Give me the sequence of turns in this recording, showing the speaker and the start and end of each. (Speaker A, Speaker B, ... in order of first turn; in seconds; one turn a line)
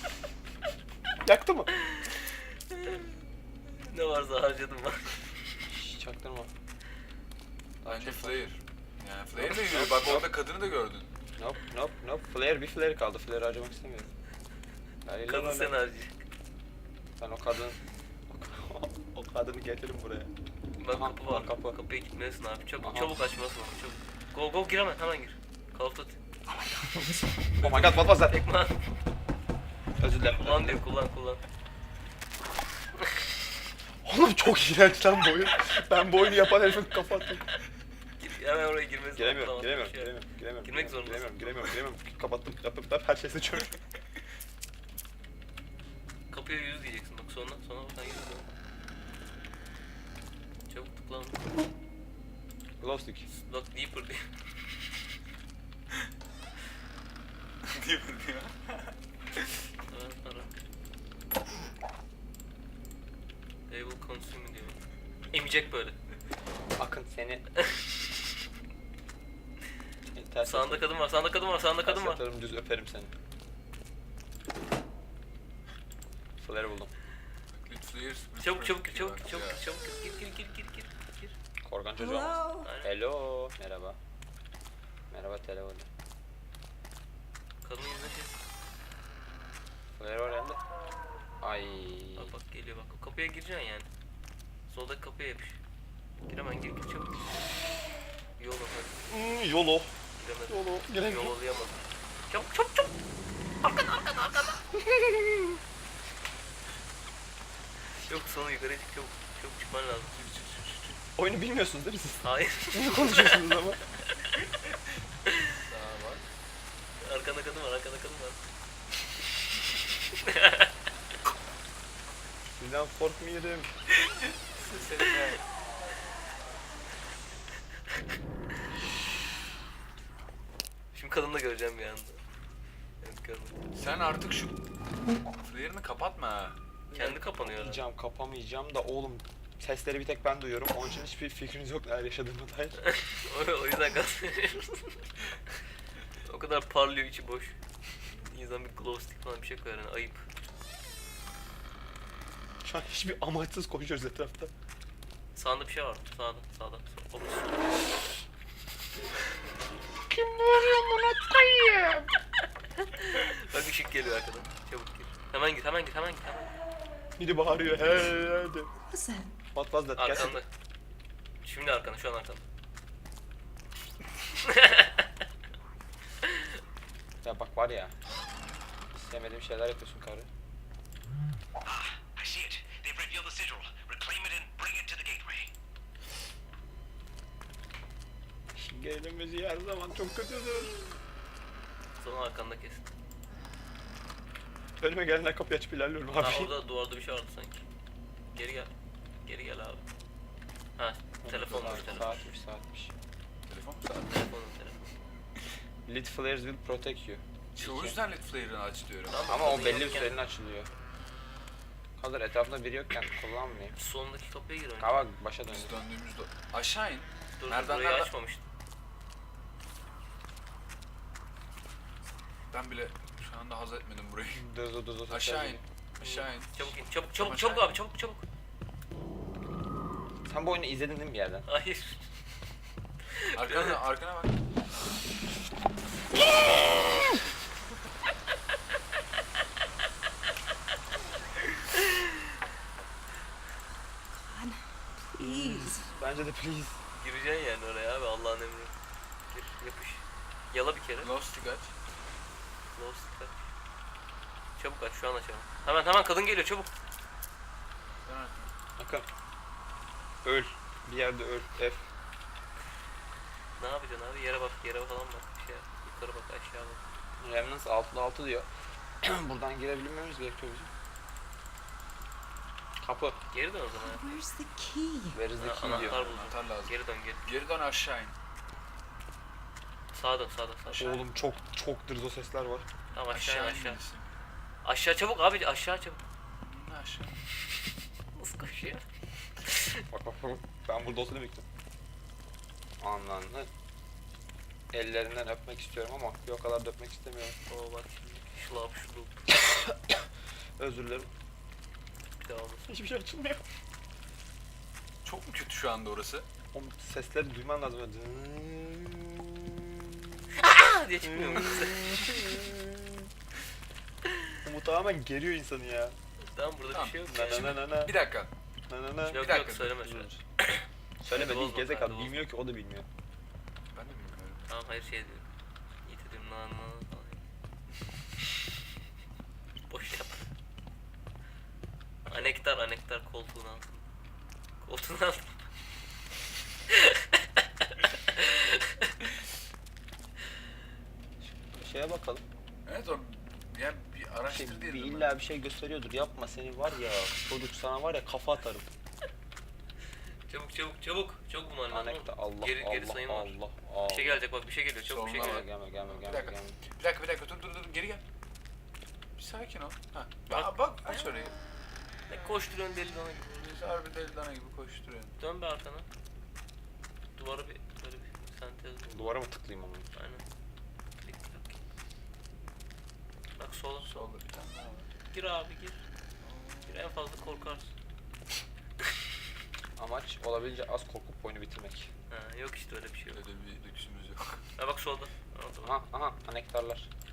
Speaker A: 1.2-1.7
Speaker B: 1.9-3.1
Speaker B: 3.6-5.2
Speaker A: 5.7-6.5
Speaker A: 7.8-8.4
Speaker C: 7.8-11.1
Speaker A: 9.3-10.3
Speaker A: 11.4-14.1
Speaker A: 15.1-15.8
Speaker B: 15.2-16.2
Speaker A: 17.2-20.3
Speaker B: 20.8-26.2
Speaker A: 20.8-21.8
Speaker A: 22.8-23.1
Speaker D: 26.5-27.6
Speaker A: 27.6-28.4
Speaker B: 27.6-29.0
Speaker A: 30.0-30.8
Speaker B: 30.3-31.4
Speaker A: 34.0-37.5
Speaker B: 38.2-40.1
Speaker A: 39.1-43.8
Speaker B: 40.6-41.7
Speaker B: 46.3-48.5
Speaker B: 50.7-51.5
Speaker A: 52.8-53.3
Speaker B: 53.3-54.3
Speaker C: 57.6-59.0
Speaker B: 59.9-60.5
Speaker B: 63.7-66.0
Speaker A: 66.8-67.4
Speaker A: 70.0-70.9
Speaker B: 70.4-72.2
Speaker A: 71.8-73.1
Speaker A: 76.4-76.9
Speaker C: 77.5-79.6
Speaker B: 78.4-81.3
Speaker A: 81.6-84.0
Speaker D: 82.0-82.7
Speaker B: 82.6-82.9
Speaker A: 85.1-85.9
Speaker B: 87.6-88.4
Speaker A: 89.9-90.6
Speaker A: 91.4-92.3
Speaker B: 92.2-93.9
Speaker B: 94.7-95.6
Speaker B: 96.3-97.4
Speaker B: 98.4-99.1
Speaker A: 99.1-99.9
Speaker B: 100.2-102.9
Speaker A: 100.5-101.3
Speaker B: 103.6-104.6
Speaker A: 104.7-105.6
Speaker B: 108.0-110.2
Speaker C: 110.1-111.0
Speaker A: 111.2-113.8
Speaker B: 112.2-113.5
Speaker B: 115.2-115.6
Speaker C: 115.6-116.2
Speaker B: 117.0-118.4
Speaker B: 120.2-120.7
Speaker A: 122.5-123.7
Speaker C: 124.5-125.4
Speaker B: 130.9-132.2
Speaker B: 133.0-133.6
Speaker C: 133.7-134.6
Speaker C: 135.4-136.6
Speaker A: 136.9-142.8
Speaker B: 136.9-137.8
Speaker B: 142.8-145.1
Speaker B: 146.2-147.6
Speaker B: 148.1-150.3
Speaker A: 152.6-154.5
Speaker B: 155.3-157.8
Speaker A: 160.1-162.1
Speaker B: 162.8-166.6
Speaker A: 167.2-168.7
Speaker D: 168.9-169.3
Speaker A: 169.5-170.4
Speaker B: 169.9-170.5
Speaker B: 171.4-172.4
Speaker B: 174.4-175.1
Speaker B: 176.2-176.5
Speaker A: 177.2-177.9
Speaker A: 178.9-180.3
Speaker E: 181.6-185.5
Speaker A: 188.5-190.7
Speaker B: 192.0-192.9
Speaker A: 194.8-196.5
Speaker B: 196.2-197.6
Speaker B: 198.3-198.7
Speaker B: 199.2-199.8
Speaker B: 200.8-202.2
Speaker A: 201.2-202.9
Speaker C: 201.3-202.2
Speaker C: 203.5-204.2
Speaker B: 204.0-204.9
Speaker A: 205.9-208.0
Speaker C: 207.6-209.3
Speaker B: 209.1-210.1
Speaker A: 209.3-210.7
Speaker A: 212.0-213.8
Speaker B: 213.7-215.1
Speaker A: 214.8-215.7
Speaker C: 215.4-218.1
Speaker B: 217.4-218.4
Speaker C: 222.5-224.4
Speaker A: 224.3-225.6
Speaker C: 225.1-227.7
Speaker B: 226.0-228.2
Speaker A: 230.2-231.4
Speaker B: 231.5-232.0
Speaker B: 233.2-233.8
Speaker C: 233.3-234.3
Speaker D: 244.1-245.9
Speaker A: 245.2-246.8
Speaker B: 246.9-248.7
Speaker B: 249.3-251.1
Speaker C: 251.0-251.7
Speaker B: 252.7-253.5
Speaker B: 254.6-256.7
Speaker C: 258.0-258.5
Speaker A: 258.8-259.1
Speaker A: 260.2-261.8
Speaker B: 263.6-266.8
Speaker A: 267.2-268.5
Speaker A: 269.0-270.7
Speaker A: 272.8-273.2
Speaker B: 273.3-274.1
Speaker D: 273.8-275.2
Speaker A: 275.1-276.0
Speaker B: 275.4-277.2
Speaker C: 275.5-278.1
Speaker B: 279.9-281.1
Speaker A: 280.7-282.7
Speaker B: 282.9-283.8
Speaker C: 283.1-284.1
Speaker B: 284.6-286.0
Speaker C: 286.4-287.2
Speaker B: 288.1-288.8
Speaker B: 289.4-289.9
Speaker A: 289.9-291.4
Speaker A: 292.8-293.5
Speaker A: 294.7-297.4
Speaker B: 297.5-299.2
Speaker A: 299.3-300.0
Speaker A: 300.6-301.1
Speaker B: 302.2-302.7
Speaker A: 302.7-303.4
Speaker C: 305.0-306.3
Speaker A: 306.5-310.2
Speaker B: 310.3-312.2
Speaker A: 311.0-313.1
Speaker B: 314.1-314.4
Speaker A: 314.4-315.9
Speaker B: 316.2-317.6
Speaker C: 316.7-318.3
Speaker A: 317.1-317.9
Speaker A: 318.7-319.3
Speaker C: 319.1-320.2
Speaker B: 319.1-322.2
Speaker A: 321.0-322.9
Speaker C: 323.7-324.4
Speaker B: 324.5-325.2
Speaker B: 325.8-327.2
Speaker B: 329.7-330.2
Speaker A: 332.1-332.3
Speaker B: 332.1-333.9
Speaker B: 334.6-335.4
Speaker B: 336.7-339.1
Speaker A: 341.4-342.2
Speaker C: 342.6-345.1
Speaker A: 344.3-348.7
Speaker B: 350.3-355.5
Speaker A: 351.7-354.2
Speaker C: 354.8-358.0
Speaker A: 355.1-356.6
Speaker C: 359.2-361.3
Speaker B: 360.3-360.9
Speaker B: 362.1-363.6
Speaker C: 363.4-365.1
Speaker B: 365.2-365.9
Speaker B: 367.2-369.2
Speaker A: 368.9-369.9
Speaker B: 369.9-370.2
Speaker B: 371.0-371.6
Speaker B: 373.4-374.1
Speaker C: 373.8-374.9
Speaker B: 375.1-375.8
Speaker C: 376.2-376.9
Speaker B: 376.7-377.7
Speaker A: 379.8-381.9
Speaker B: 382.1-383.2
Speaker C: 383.1-384.4
Speaker B: 384.6-385.8
Speaker A: 385.6-386.9